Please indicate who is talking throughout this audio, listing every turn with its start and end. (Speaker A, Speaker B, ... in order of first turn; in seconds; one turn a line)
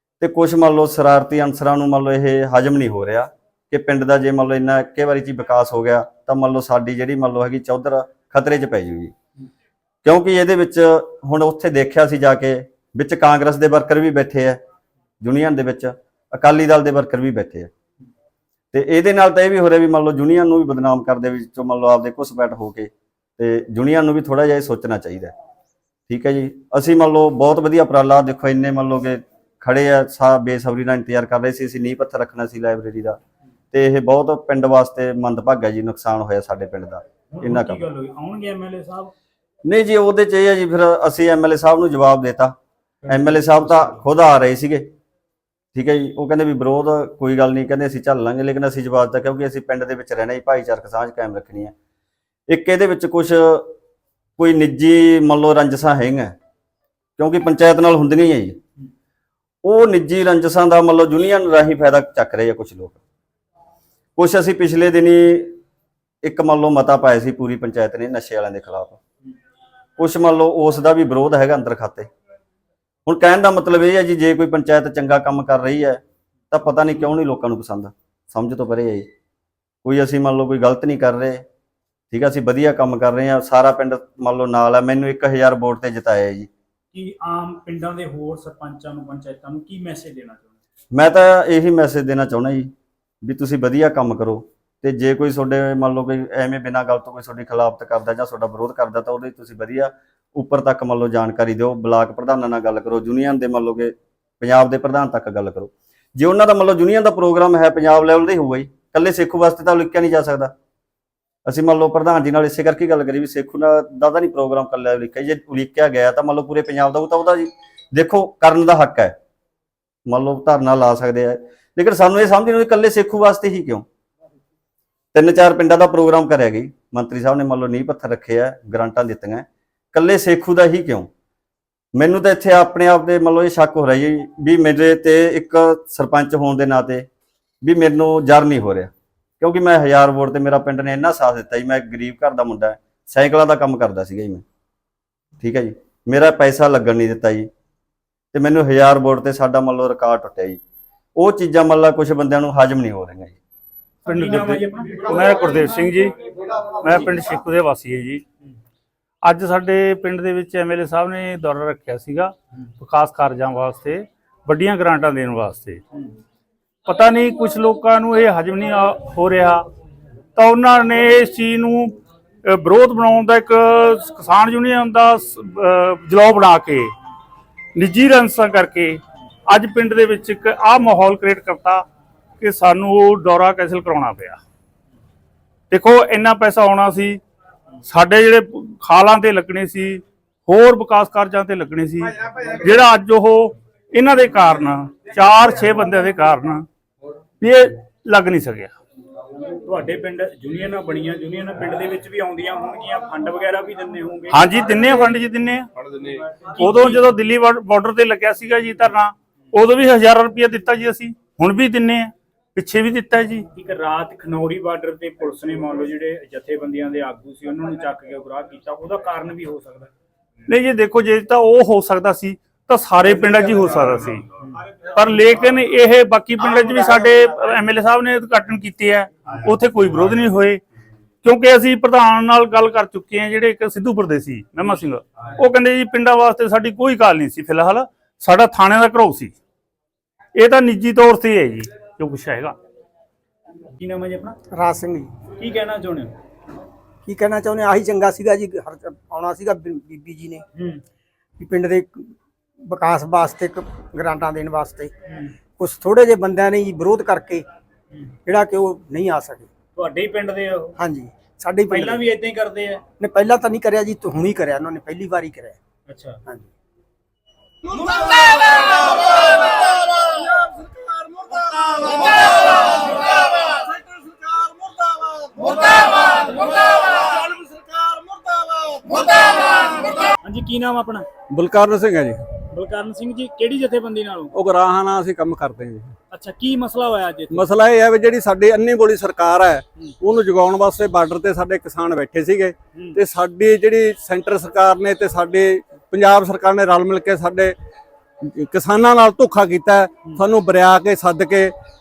Speaker A: 0.2-9.1
Speaker A: 10.0-14.6
Speaker A: 15.2-17.7
Speaker A: 18.7-25.3
Speaker A: 26.1-33.2
Speaker A: 33.7-37.8
Speaker B: 37.3-39.1
Speaker A: 39.7-42.5
Speaker A: 43.1-44.9
Speaker A: 45.7-51.7
Speaker A: 52.5-53.7
Speaker A: 54.4-56.3
Speaker A: 57.2-58.6
Speaker A: 59.6-63.0
Speaker A: 64.2-65.6
Speaker A: 66.2-69.0
Speaker A: 70.0-72.1
Speaker A: 73.0-79.1
Speaker A: 79.8-81.4
Speaker A: 82.1-86.5
Speaker B: 86.9-90.5
Speaker A: 90.9-92.7
Speaker A: 93.2-110.5
Speaker A: 111.5-119.1
Speaker A: 120.1-123.8
Speaker A: 125.1-131.1
Speaker A: 131.9-137.1
Speaker A: 137.6-144.4
Speaker A: 145.4-147.5
Speaker A: 148.3-150.6
Speaker A: 151.2-153.3
Speaker C: 154.1-156.1
Speaker B: 154.1-155.2
Speaker C: 156.8-158.2
Speaker C: 159.2-165.8
Speaker C: 166.8-169.6
Speaker C: 170.3-176.9
Speaker C: 177.8-181.8
Speaker C: 182.4-184.4
Speaker C: 185.7-187.2
Speaker C: 187.9-196.7
Speaker C: 197.4-198.7
Speaker B: 199.6-204.5
Speaker C: 204.3-205.7
Speaker C: 206.6-213.5
Speaker B: 206.6-207.0
Speaker B: 213.5-219.9
Speaker C: 220.5-224.2
Speaker C: 224.9-230.6
Speaker C: 231.2-239.3
Speaker C: 240.3-242.6
Speaker B: 243.8-244.4
Speaker D: 244.5-245.1
Speaker B: 245.3-246.1
Speaker D: 247.0-250.4
Speaker B: 250.6-250.8
Speaker D: 251.4-252.1
Speaker D: 252.7-254.9
Speaker D: 255.6-257.4
Speaker D: 258.2-259.5
Speaker B: 259.8-260.8
Speaker D: 260.8-262.0
Speaker B: 261.7-262.8
Speaker D: 263.0-265.6
Speaker B: 265.9-266.2
Speaker E: 268.5-279.4
Speaker B: 280.2-281.1
Speaker E: 281.3-282.4
Speaker B: 282.5-284.4
Speaker E: 284.3-285.9
Speaker B: 286.1-287.4
Speaker E: 287.3-297.6
Speaker E: 298.2-301.5
Speaker B: 300.0-300.3